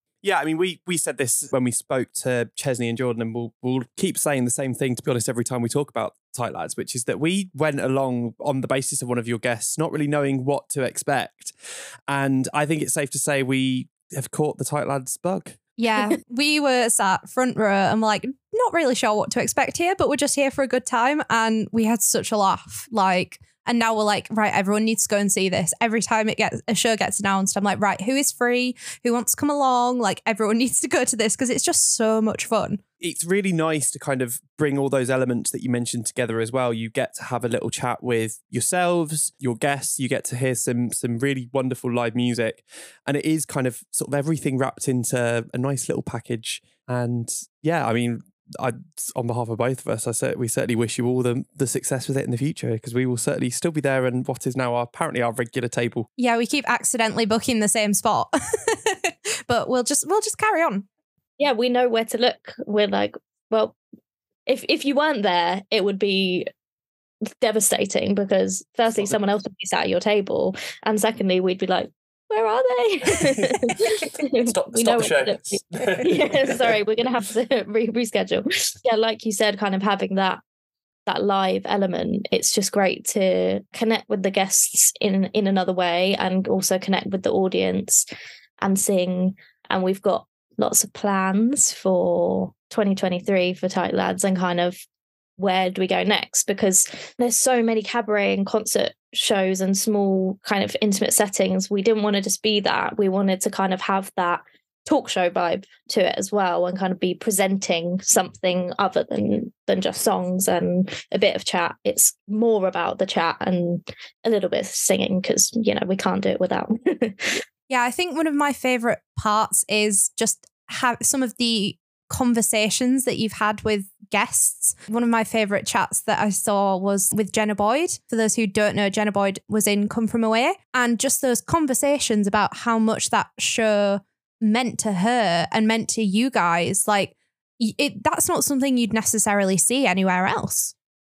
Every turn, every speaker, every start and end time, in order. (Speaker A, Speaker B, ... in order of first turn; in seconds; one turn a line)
Speaker A: 0.2-11.6
Speaker A: 12.1-15.6
Speaker B: 15.8-32.8
Speaker A: 33.0-56.1
Speaker B: 56.2-60.9
Speaker C: 61.4-63.8
Speaker C: 64.5-66.5
Speaker C: 67.4-80.4
Speaker A: 73.4-73.8
Speaker A: 74.5-76.8
Speaker C: 81.1-88.1
Speaker C: 88.6-94.8
Speaker C: 95.4-117.4
Speaker B: 117.7-140.7